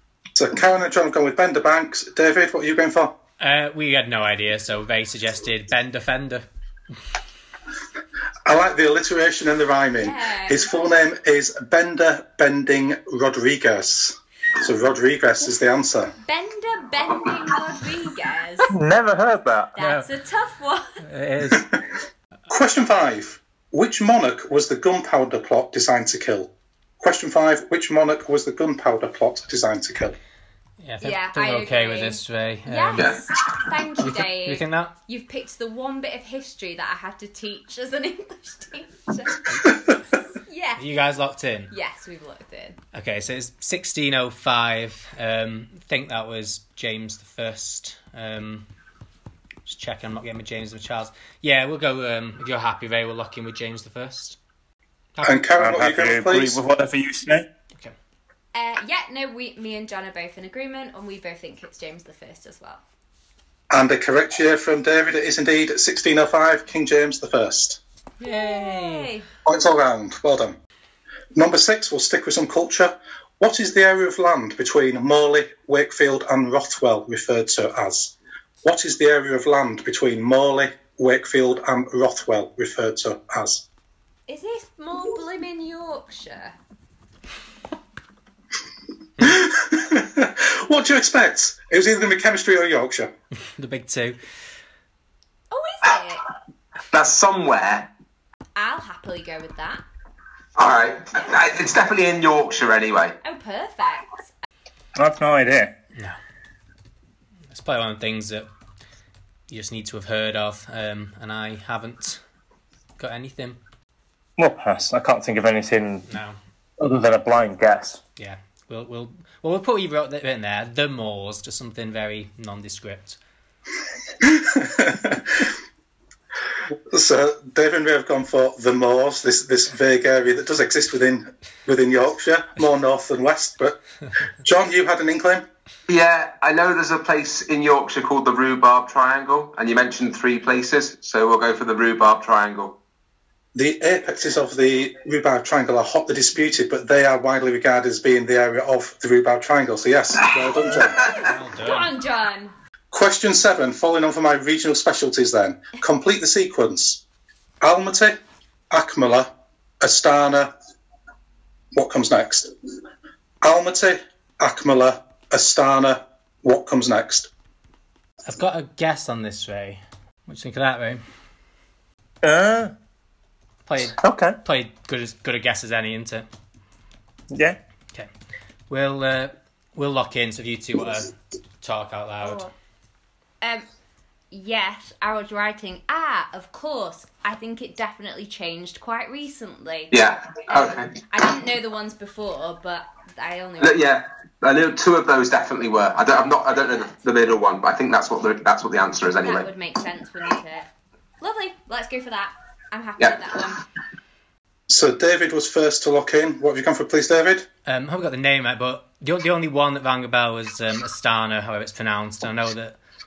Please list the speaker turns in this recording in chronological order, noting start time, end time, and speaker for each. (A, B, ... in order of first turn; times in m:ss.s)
0:00.4-0:03.1 A
0:03.4-0:06.4 B
0:08.5-0:16.1 A
0:10.0-0:10.7 C
0:16.2-0:18.7 C
0:18.7-0:19.8 D
0:19.8-0:21.0 C
0:19.8-0:20.1 B
0:21.0-0:21.7 B
0:21.5-0:21.8 A
0:22.5-0:30.2 A
0:30.8-0:33.1 B
0:31.0-0:39.5 C
0:33.0-0:33.2 E
0:34.0-0:34.9 B
0:39.5-0:40.0 B
0:40.4-0:40.8 C
0:40.8-0:41.7 B
0:41.7-0:42.8 C
0:42.9-0:48.7 B
0:49.7-0:54.4 B
0:55.2-0:55.5 B
0:55.2-0:56.6 A
0:55.6-0:57.5 D
0:58.5-1:02.8 C
1:03.7-1:07.8 A
1:08.2-1:09.3 C
1:08.2-1:09.1 B
1:09.4-1:10.6 A
1:11.3-1:23.6 A
1:24.3-1:26.6 C
1:29.2-1:33.1 A
1:33.6-1:34.2 B
1:35.5-1:36.3 C
1:36.9-1:37.9 E
1:38.6-1:39.8 C
1:40.6-1:43.2 E
1:43.2-1:44.3 C
1:45.0-1:45.7 D
1:47.5-1:48.5 B
1:49.5-1:52.2 B
1:53.0-1:53.6 B
1:54.4-1:56.1 D
1:56.1-1:56.4 B
1:56.8-1:58.0 D
1:58.2-2:03.2 B
2:04.2-2:05.5 A
2:06.9-2:13.8 A
2:14.4-2:15.4 A
2:15.9-2:22.8 E
2:23.6-2:31.0 A
2:30.2-2:31.3 E
2:30.9-2:32.5 C
2:31.1-2:31.9 B
2:32.9-2:37.0 A
2:37.6-2:38.2 A
2:38.7-2:39.3 A
2:39.8-2:40.5 A
2:41.7-2:42.5 A
2:43.4-2:47.3 A
2:48.2-2:51.0 B
2:52.2-2:52.7 D
2:53.7-2:56.3 B
2:54.0-2:54.4 D
2:57.3-2:57.6 D
2:58.7-3:02.4 B
3:02.2-3:02.5 C
3:04.3-3:09.9 C
3:09.9-3:11.0 E
3:10.5-3:13.8 C
3:13.6-3:19.5 E
3:16.2-3:17.0 C
3:19.2-3:20.7 C
3:21.2-3:23.6 C
3:24.7-3:27.5 A
3:27.7-3:32.8 B